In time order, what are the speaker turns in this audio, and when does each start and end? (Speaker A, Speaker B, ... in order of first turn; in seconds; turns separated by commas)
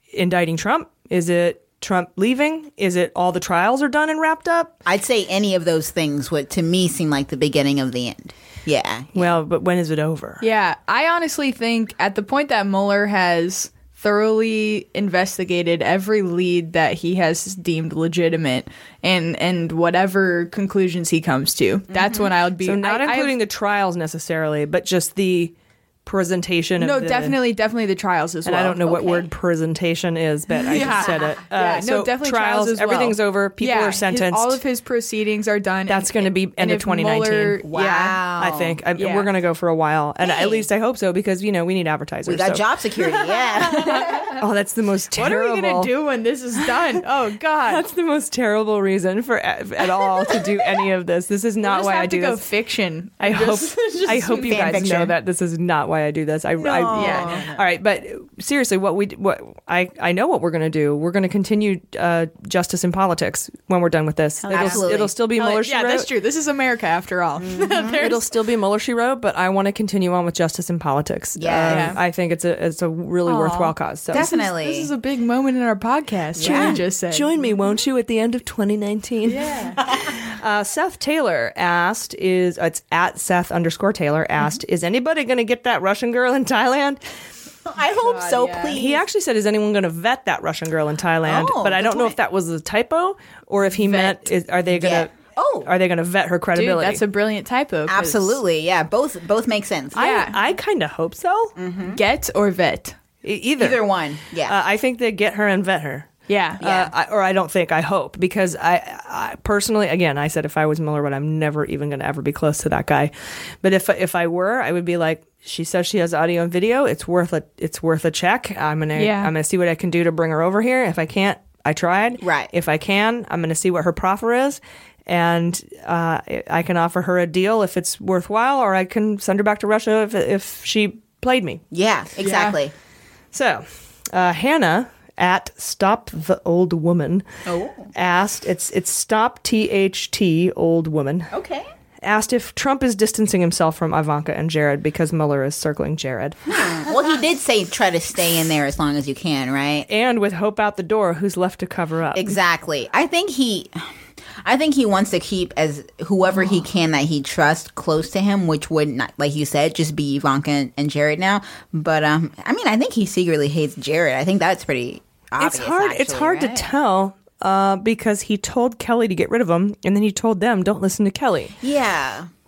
Speaker A: 0.1-4.7, Speaker B: 4.9-9.3, Speaker A: 9.1-10.4, Speaker C: 10.4-23.4, Speaker B: 21.9-22.3, Speaker A: 22.6-25.5, Speaker A: 26.1-27.4, Speaker C: 26.8-29.2, Speaker A: 28.4-34.6, Speaker C: 30.6-37.7, Speaker B: 30.7-31.4, Speaker A: 35.9-42.6, Speaker B: 37.6-38.8, Speaker C: 39.0-39.3, Speaker B: 40.2-40.7, Speaker B: 42.3-44.3, Speaker C: 43.8-44.4, Speaker A: 44.4-45.9, Speaker C: 45.2-47.8, Speaker A: 47.7-52.4, Speaker C: 51.6-54.8, Speaker A: 53.2-66.1, Speaker B: 54.3-55.1, Speaker C: 56.6-57.4, Speaker B: 56.6-57.6, Speaker B: 64.4-65.1, Speaker C: 64.5-64.8, Speaker C: 65.4-68.2, Speaker B: 67.4-68.1, Speaker A: 68.0-74.3, Speaker B: 71.4-72.0, Speaker C: 71.5-72.0, Speaker C: 73.3-77.3, Speaker B: 74.1-74.9, Speaker A: 76.4-87.0, Speaker B: 76.4-76.8, Speaker C: 79.3-79.8, Speaker B: 87.7-89.0, Speaker C: 87.9-88.8, Speaker A: 88.7-95.1, Speaker B: 91.2-92.2, Speaker C: 93.8-94.2, Speaker B: 94.7-95.7, Speaker A: 95.7-97.0, Speaker C: 96.5-98.4, Speaker B: 97.9-100.0, Speaker C: 100.0-100.4, Speaker A: 100.0-101.5, Speaker B: 101.6-102.0, Speaker C: 102.0-103.0, Speaker A: 103.2-106.1, Speaker B: 103.6-104.6, Speaker C: 106.3-106.7, Speaker B: 106.6-106.9, Speaker A: 106.6-113.1, Speaker A: 113.6-131.6, Speaker C: 119.0-119.3, Speaker B: 122.2-122.5, Speaker B: 131.7-132.7, Speaker C: 132.2-132.6, Speaker A: 133.3-137.3, Speaker B: 137.5-137.9, Speaker A: 137.9-141.3, Speaker B: 141.3-141.7, Speaker A: 142.0-146.4, Speaker B: 146.5-149.9, Speaker A: 149.9-152.3, Speaker B: 152.2-166.7, Speaker A: 165.4-171.5, Speaker B: 171.6-172.3